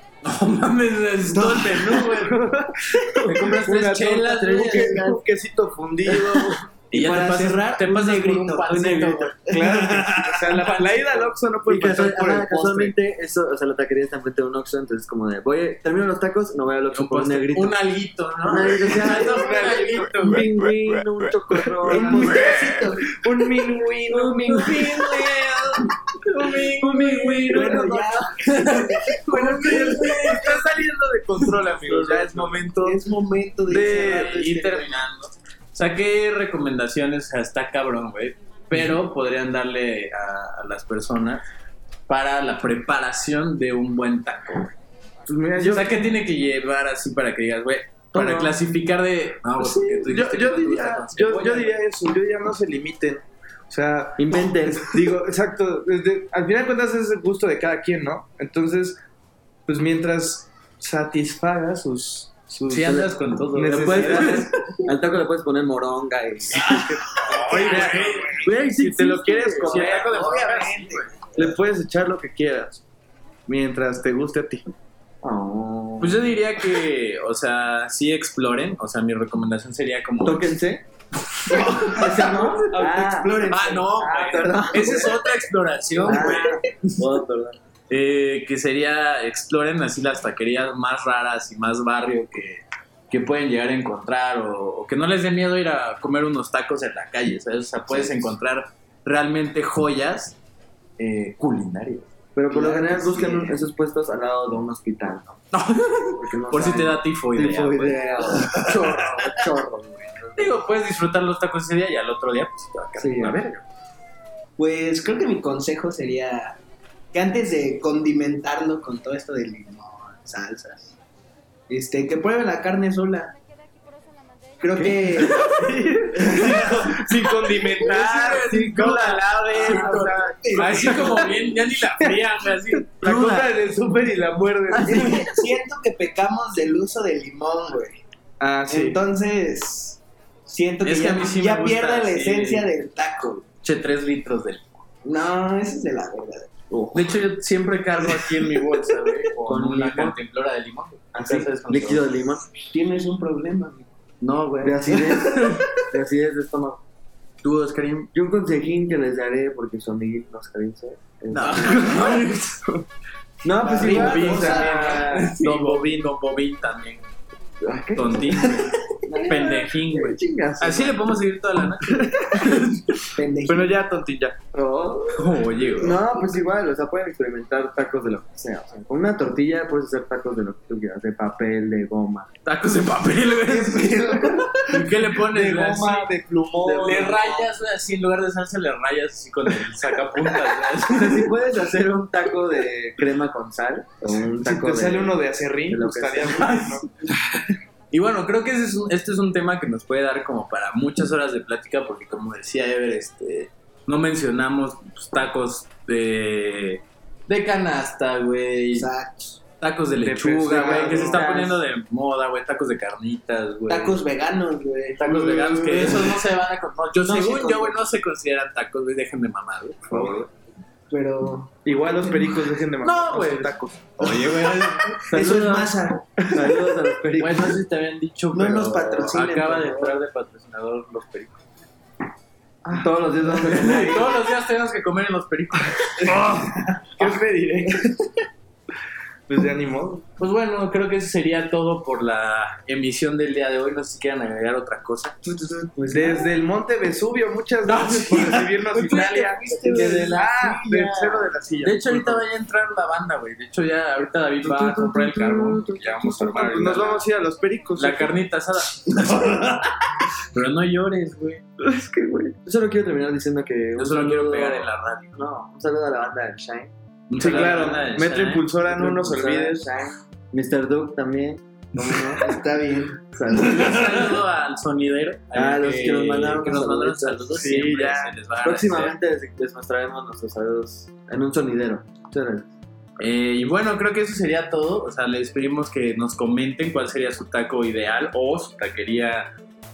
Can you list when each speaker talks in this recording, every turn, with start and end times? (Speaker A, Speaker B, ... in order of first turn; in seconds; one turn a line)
Speaker A: 0.2-2.4
Speaker B: 1.3-6.7
Speaker A: 3.2-5.0
Speaker C: 4.3-5.2
Speaker A: 6.9-9.4
Speaker D: 6.9-11.0
Speaker B: 9.5-12.9
Speaker C: 11.7-17.8
Speaker A: 16.9-20.5
Speaker C: 18.4-22.5
Speaker B: 19.2-20.0
Speaker B: 21.9-22.4
Speaker D: 21.9-23.1
Speaker B: 23.1-25.6
Speaker C: 24.1-25.5
Speaker A: 24.5-25.7
Speaker A: 26.2-30.7
Speaker C: 26.8-27.6
Speaker B: 26.8-28.3
Speaker D: 27.5-30.5
Speaker B: 29.3-33.0
Speaker D: 31.9-35.0
Speaker B: 33.7-34.4
Speaker A: 33.7-41.5
Speaker A: 42.1-44.7
Speaker B: 45.3-46.1
Speaker A: 45.6-51.8
Speaker C: 48.1-48.6
Speaker B: 49.6-59.0
Speaker C: 54.2-55.1
Speaker B: 59.7-64.5
Speaker A: 62.7-64.5
Speaker C: 63.8-66.9
Speaker A: 66.5-68.4
Speaker B: 66.7-70.6
Speaker D: 67.3-68.2
Speaker C: 67.5-70.4
Speaker A: 69.6-71.1
Speaker D: 70.0-71.2
Speaker B: 71.3-72.8
Speaker B: 73.5-74.7
Speaker C: 75.2-76.4
Speaker A: 76.0-80.5
Speaker C: 80.2-80.8
Speaker C: 81.5-83.5
Speaker D: 81.5-85.2
Speaker A: 83.5-86.6
Speaker C: 84.1-85.2
Speaker C: 86.0-87.6
Speaker D: 86.0-86.7
Speaker A: 87.9-100.4
Speaker C: 97.9-98.3
Speaker A: 101.0-102.1
Speaker C: 102.4-105.4
Speaker D: 102.5-103.6
Speaker A: 105.5-108.8
Speaker C: 106.1-110.6
Speaker A: 110.4-113.6
Speaker C: 113.0-113.5
Speaker D: 114.6-116.6
Speaker D: 117.1-121.0
Speaker D: 121.7-123.3
Speaker D: 124.6-125.5
Speaker A: 124.8-125.3
Speaker B: 125.3-131.4
Speaker D: 126.2-127.0
Speaker A: 127.8-132.9
Speaker C: 128.5-129.0
Speaker D: 129.0-131.3
Speaker B: 133.0-135.3
Speaker C: 133.0-133.5
Speaker D: 134.8-138.0
Speaker C: 134.8-135.2
Speaker B: 138.4-139.0
Speaker D: 138.7-143.4
Speaker A: 140.8-142.7
Speaker A: 143.6-144.8
Speaker D: 145.0-146.5
Speaker C: 146.7-147.2
Speaker A: 146.9-152.1
Speaker C: 149.4-150.2
Speaker C: 151.1-152.5
Speaker D: 152.7-153.9
Speaker A: 154.2-155.1
Speaker C: 154.6-156.8
Speaker D: 154.9-155.7
Speaker A: 157.4-158.1
Speaker C: 158.1-162.0
Speaker A: 161.3-162.8
Speaker D: 161.3-162.2
Speaker C: 163.4-164.9
Speaker D: 163.7-165.3
Speaker B: 163.7-165.9
Speaker A: 163.7-167.1
Speaker C: 167.6-171.1
Speaker A: 167.9-173.1
Speaker D: 173.2-173.8
Speaker B: 173.5-174.4
Speaker C: 174.5-182.3
Speaker A: 175.1-176.0
Speaker A: 182.4-191.3
Speaker D: 183.5-184.7
Speaker B: 185.1-187.4
Speaker B: 189.8-190.5
Speaker C: 190.9-196.5
Speaker B: 194.4-196.9
Speaker A: 196.3-196.9
Speaker A: 197.9-208.9
Speaker D: 208.7-209.4
Speaker A: 209.6-214.0
Speaker B: 210.0-211.3
Speaker C: 210.3-211.6
Speaker D: 213.7-216.2
Speaker A: 215.0-220.3
Speaker D: 217.0-217.8
Speaker D: 220.9-221.5
Speaker B: 221.7-224.2
Speaker A: 222.8-225.1
Speaker D: 224.0-224.4
Speaker D: 225.0-226.1
Speaker C: 225.1-225.8
Speaker C: 226.3-227.6
Speaker A: 227.2-231.4
Speaker D: 228.3-230.0
Speaker B: 232.7-233.8
Speaker C: 232.8-234.3
Speaker A: 233.4-236.4
Speaker B: 236.1-237.9
Speaker A: 237.0-237.7
Speaker B: 239.3-240.1
Speaker A: 240.2-245.2
Speaker D: 245.3-246.2
Speaker B: 245.9-252.2
Speaker A: 247.7-257.1
Speaker D: 248.8-250.5
Speaker C: 254.4-256.3
Speaker B: 256.3-258.1
Speaker A: 257.8-259.7
Speaker A: 260.3-261.4
Speaker C: 261.6-267.8
Speaker A: 263.8-265.2
Speaker A: 267.1-268.5
Speaker B: 267.2-269.7
Speaker C: 268.7-272.2
Speaker D: 271.8-273.1
Speaker C: 273.2-274.0
Speaker A: 273.3-279.0
Speaker C: 275.3-277.5
Speaker B: 277.4-278.1
Speaker C: 278.4-282.5
Speaker A: 283.0-289.3